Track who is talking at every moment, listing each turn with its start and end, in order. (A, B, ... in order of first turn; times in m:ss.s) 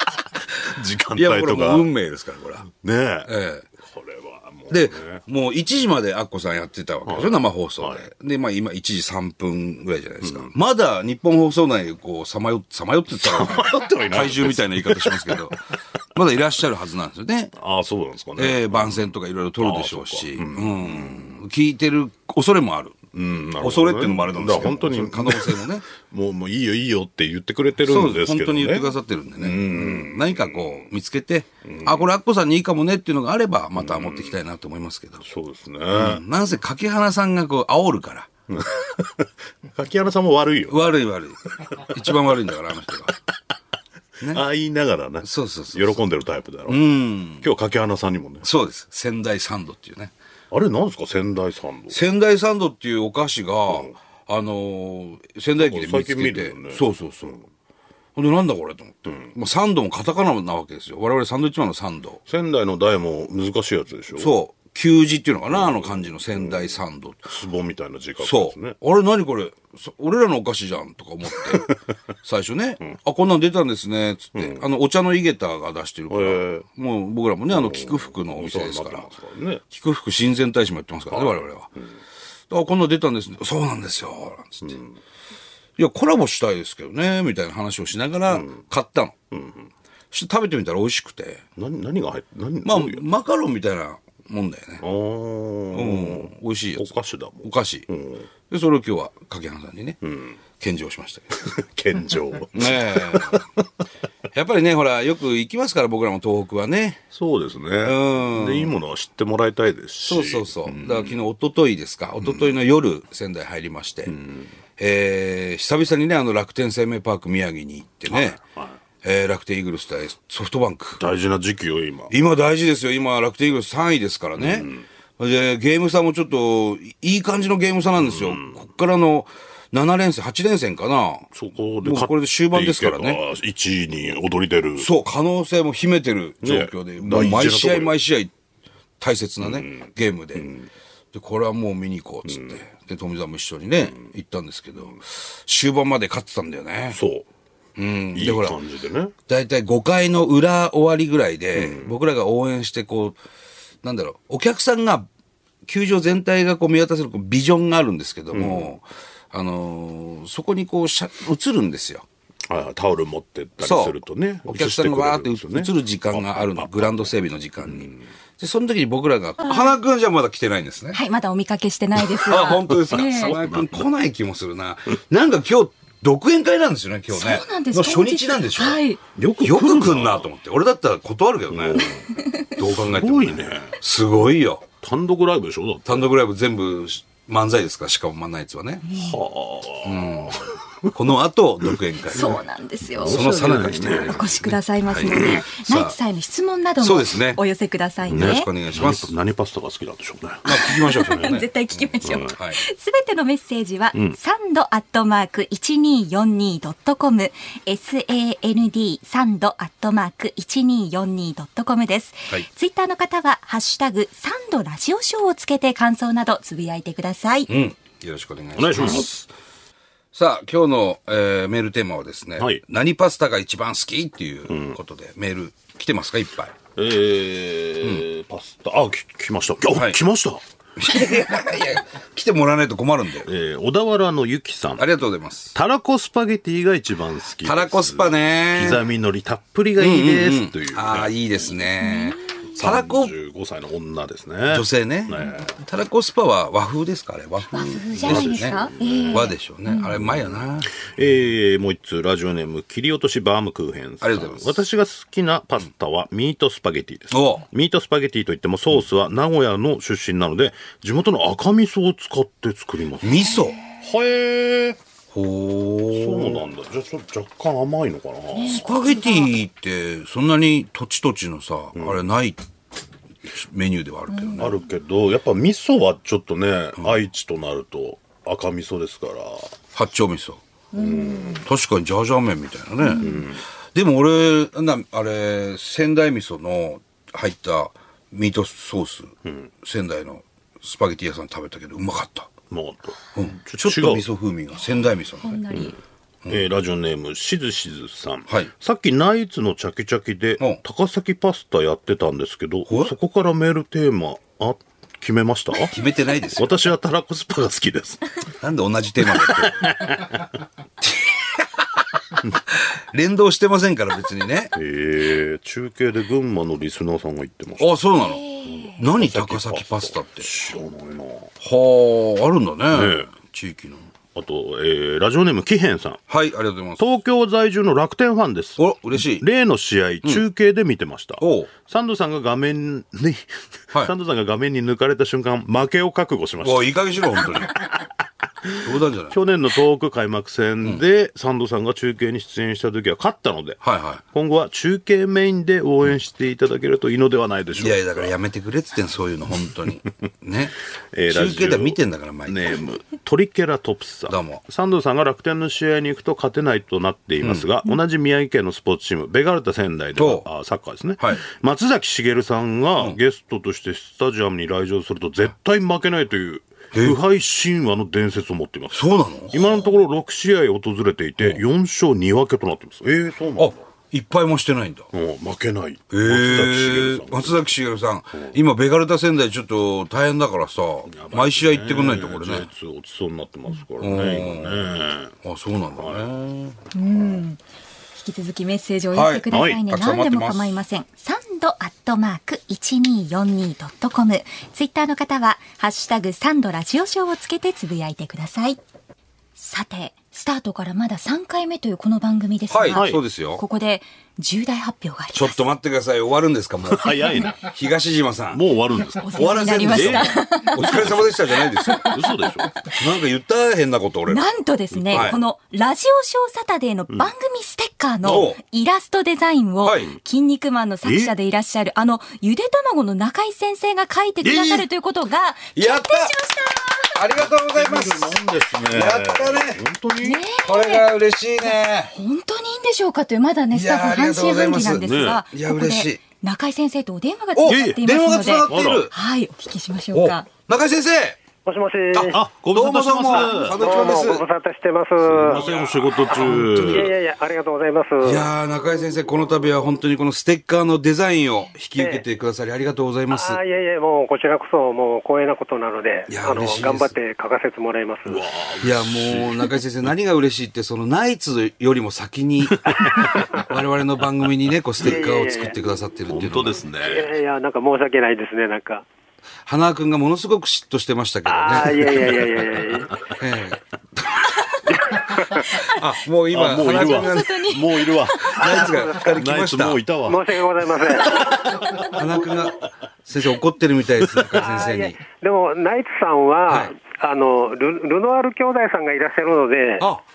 0:00.6-0:01.9 A
0:01.2-0:02.7 B
0:02.6-0:05.2 A
0:03.3-0:03.7 B
0:04.7-0:15.6 B
0:07.1-0:08.1 A
0:10.2-0:10.5 A
0:13.2-0:15.4 A
0:16.1-0:17.5 B
0:17.6-0:19.1 A
0:18.4-0:23.0 B
0:19.6-0:21.4 A
0:23.1-0:30.9 A
0:23.6-0:25.9 B
0:27.8-0:35.2 B
0:31.6-0:32.2 A
0:33.8-0:34.4 A
0:35.2-0:36.2 A
0:35.9-0:38.3 B
0:38.5-0:41.0 A
0:40.7-0:43.1 B
0:41.7-0:42.0 A
0:44.2-0:48.5 A
0:45.2-0:46.0 B
0:46.7-0:47.5 B
0:48.4-0:50.1 B
0:50.5-0:52.0 A
0:51.9-0:57.4 B
0:53.7-0:53.9 A
0:55.6-0:57.4 A
0:58.2-1:02.2 B
1:02.3-1:04.3 A
1:04.2-1:07.3 B
1:05.5-1:08.8 A
1:08.2-1:11.7 B
1:11.4-1:11.8 A
1:12.2-1:19.1 B
1:14.4-1:14.6 A
1:16.1-1:16.6 A
1:17.5-1:19.6 A
1:19.7-1:21.7 B
1:21.1-1:22.0 A
1:22.5-1:24.8 B
1:24.6-1:25.0 A
1:25.8-1:29.2 B
1:28.3-1:28.6 A
1:29.3-1:29.7 A
1:30.1-1:31.4 B
1:31.6-1:33.0 A
1:32.6-1:34.8 B
1:34.8-1:38.3 A
1:35.7-1:37.9 B
1:38.5-1:40.0 B
1:40.0-1:40.4 A
1:40.6-1:41.3 B
1:41.4-1:43.6 A
1:42.5-1:43.4 B
1:44.3-1:47.0 B
1:47.1-1:51.2 A
1:47.8-1:48.8 B
1:50.0-1:54.1 B
1:52.2-1:52.5 A
1:54.1-1:54.5 A
1:54.8-1:58.4 B
1:58.1-1:58.8 A
1:59.0-2:01.0 B
2:01.0-2:02.1 A
2:02.1-2:04.7 B
2:04.4-2:04.8 A
2:05.2-2:11.3 B
2:08.0-2:08.6 A
2:11.3-2:14.9 A
2:11.8-2:13.2 B
2:14.8-2:18.3 B
2:16.4-2:17.9 A
2:19.0-2:20.5 B
2:19.4-2:20.7 A
2:21.1-2:27.0 B
2:22.3-2:22.5 A
2:26.9-2:27.3 A
2:27.8-2:28.6 B
2:28.1-2:29.1 A
2:29.3-2:33.2 B
2:31.6-2:32.0 A
2:33.8-2:35.1 B
2:35.7-2:42.0 B
2:38.3-2:38.8 A
2:42.5-2:48.1 A
2:43.6-2:51.0 B
2:49.5-2:49.8 C
2:50.9-2:53.4 C
2:52.2-2:58.8 B
2:52.5-2:53.9 A
2:57.1-2:59.0 C
2:59.2-3:00.3 A
2:59.4-3:01.9 B
3:01.5-3:03.8 A
3:02.6-3:04.6 B
3:04.8-3:06.1 A
3:05.9-3:08.8 B
3:08.9-3:10.9 A
3:09.8-3:12.4 B
3:11.7-3:12.4 A
3:12.1-3:18.5 C
3:13.0-3:14.2 A
3:13.0-3:16.0 B
3:15.1-3:15.3 A
3:16.8-3:17.4 B
3:18.1-3:21.4 A
3:18.1-3:19.1 B
3:20.4-3:22.6 B
3:20.5-3:37.5 C
3:22.0-3:22.3 A
3:37.5-3:39.1 B
3:38.6-3:39.3 A
3:40.1-3:46.5 B
3:42.4-3:42.6 A
3:44.5-3:44.8 A
3:46.8-3:50.4 A
3:50.8-3:53.3 B
3:53.2-3:54.8 A
3:54.8-3:55.5 B
3:55.6-4:01.2 A
3:57.4-3:58.8 B
3:59.8-4:03.1 B
4:01.8-4:02.2 C
4:02.5-4:05.5 A
4:04.5-4:10.7 B
4:07.5-4:10.0 C
4:07.5-4:09.3 A
4:09.9-4:24.8 A
4:14.0-4:14.6 B
4:17.1-4:17.4 B
4:23.0-4:23.6 B
4:25.1-4:26.4 B
4:25.9-4:28.7 A
4:28.3-4:29.3 C
4:28.5-4:32.4 B
4:31.8-4:32.1 A
4:33.3-4:34.5 B
4:34.1-4:34.6 C
4:34.4-4:39.5 A
4:39.7-4:40.4 B
4:40.7-4:41.4 C
4:40.8-4:41.4 A
4:41.4-4:43.2 B
4:42.8-4:43.2 C
4:43.0-4:43.4 A
4:43.7-4:52.3 B
4:52.5-4:54.1 A
4:53.1-4:55.4 B
4:55.2-4:55.8 C
4:56.3-5:05.8 A
5:05.7-5:06.5 B
5:06.3-5:08.0 A
5:08.4-5:09.9 B
5:09.1-5:10.3 A
5:12.9-5:14.5 B
5:14.6-5:17.7 A
5:17.6-5:18.2 B
5:18.0-5:18.8 C
5:18.4-5:21.3 A
5:18.8-5:20.3 B
5:21.4-5:23.9 B
5:22.7-5:23.1 A
5:24.2-5:26.0 A
5:26.1-5:26.8 B
5:26.8-5:37.9 A
5:28.6-5:29.2 B
5:31.2-5:31.5 B
5:36.4-5:37.6 B
5:38.4-5:48.1 A
5:38.6-5:39.1 B
5:43.6-5:44.0 B
5:47.6-5:50.6 B
5:50.9-6:13.6 A
5:51.1-5:52.4 B
5:54.1-5:54.4 B
6:00.0-6:00.3 B
6:08.7-6:09.4 B
6:13.4-6:14.9 B
6:14.9-6:17.5 A
6:15.9-6:22.5 B
6:18.1-6:18.4 A
6:20.9-6:25.2 A
6:23.8-6:24.7 B
6:25.2-6:26.6 B
6:25.8-6:26.1 A
6:26.7-6:27.4 C
6:28.0-6:38.6 C
6:28.9-6:30.6 B
6:29.3-6:29.6 A
6:39.4-6:45.4 C
6:42.5-6:43.4 B
6:42.7-6:43.0 A
6:45.1-6:48.4 B
6:46.6-6:47.5 A
6:48.3-6:52.6 A
6:48.8-6:50.8 C
6:49.1-6:51.9 B
6:51.4-6:52.3 C
6:52.7-6:54.3 B
6:54.1-7:07.0 C
6:54.7-6:55.2 A
6:54.9-6:55.2 B
6:58.0-6:58.3 A
6:58.0-6:58.4 B
6:59.6-6:59.9 B
7:00.8-7:01.1 A
7:04.2-7:04.5 B
7:04.2-7:04.6 A
7:05.6-7:06.1 B
7:07.0-7:09.6 B
7:07.2-7:10.2 A
7:10.0-7:10.9 C
7:10.4-7:11.9 B
7:11.5-7:20.3 C
7:13.5-7:16.0 B
7:14.8-7:15.2 A
7:17.4-7:18.9 B
7:17.5-7:17.8 A
7:18.5-7:18.9 A
7:19.9-7:21.2 B
7:21.4-7:22.2 D
7:21.9-7:24.2 B
7:22.1-7:23.8 A
7:23.4-7:25.5 D
7:25.0-7:26.9 A
7:25.2-7:26.9 B
7:26.1-7:28.3 D
7:28.0-7:33.4 B
7:31.8-7:32.0 D
7:33.1-7:38.2 D
7:36.1-7:37.0 B
7:38.1-7:39.9 A
7:38.6-7:42.6 B
7:42.8-7:43.4 D
7:43.5-7:46.6 B
7:44.8-7:45.6 D
7:46.1-7:47.1 A
7:46.8-7:48.9 D
7:49.5-7:52.2 B
7:51.3-7:52.9 D
7:53.1-7:53.6 B
7:54.7-7:55.6 D
7:55.3-7:57.5 B
7:56.3-8:02.3 A
7:56.7-7:58.4 C
7:58.2-7:59.8 B
7:58.4-7:59.2 D
8:00.1-8:01.4 D
8:01.9-8:05.0 B
8:04.0-8:04.4 A
8:04.3-8:09.9 D
8:09.8-8:10.0 B